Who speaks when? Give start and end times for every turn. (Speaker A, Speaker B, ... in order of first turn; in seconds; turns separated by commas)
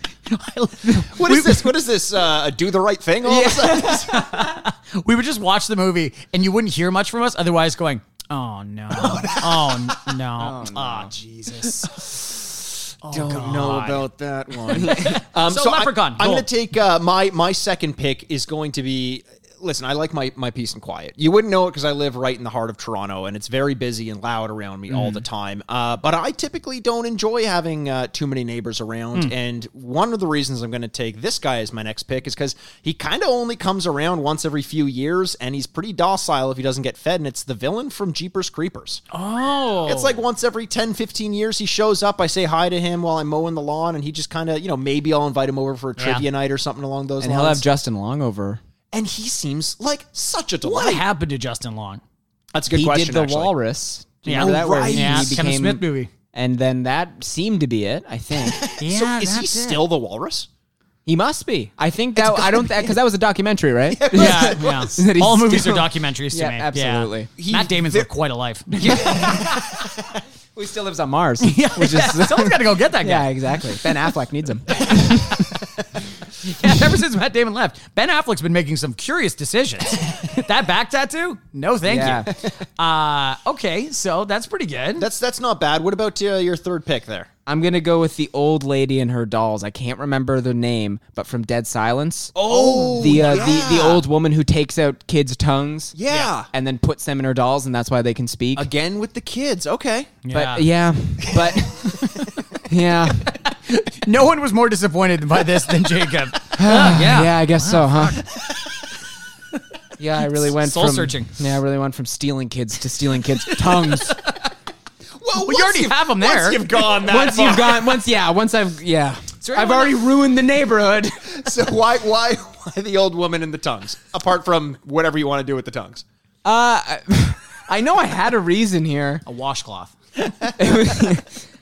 Speaker A: 0.2-1.7, Speaker B: 1.1-4.1, Speaker C: 3.2-4.4, Speaker A: 4.0-12.1, Speaker B: 8.9-9.9, Speaker C: 10.3-11.1, Speaker A: 13.0-14.1, Speaker B: 13.1-39.0, Speaker A: 14.7-16.5, Speaker C: 14.7-15.2, Speaker A: 24.9-25.2, Speaker A: 39.1-40.2, Speaker B: 39.8-47.6, Speaker A: 46.0-46.2, Speaker C: 47.2-48.6, Speaker B: 48.9-51.0, Speaker A: 50.6-52.0, Speaker B: 52.5-53.5, Speaker C: 52.7-58.7, Speaker B: 54.2-55.4, Speaker A: 54.2-56.1, Speaker B: 58.5-60.5, Speaker A: 58.8-59.8, Speaker C: 61.0-67.3, Speaker B: 62.2-62.9, Speaker B: 63.9-65.0, Speaker A: 64.1-69.1, Speaker B: 67.4-68.1, Speaker B: 68.8-70.0, Speaker C: 68.8-69.7, Speaker C: 70.5-75.6, Speaker A: 71.4-73.3, Speaker A: 76.4-85.1, Speaker C: 81.8-82.3, Speaker B: 85.0-87.3, Speaker C: 87.5-95.9, Speaker B: 92.3-94.0, Speaker A: 92.5-93.7, Speaker B: 96.0-96.5, Speaker C: 96.5-98.7, Speaker B: 98.5-100.2, Speaker A: 100.2-100.7, Speaker C: 100.3-102.1, Speaker B: 101.3-101.6, Speaker C: 102.6-103.3, Speaker A: 103.3-108.3, Speaker C: 106.6-108.2, Speaker C: 110.0-114.2, Speaker A: 110.3-111.3, Speaker A: 113.5-114.3, Speaker B: 115.2-118.0, Speaker A: 115.3-116.7, Speaker C: 117.0-121.4, Speaker A: 119.4-120.0, Speaker B: 121.3-126.0, Speaker C: 126.4-129.2, Speaker A: 129.2-129.9, Speaker C: 130.6-131.4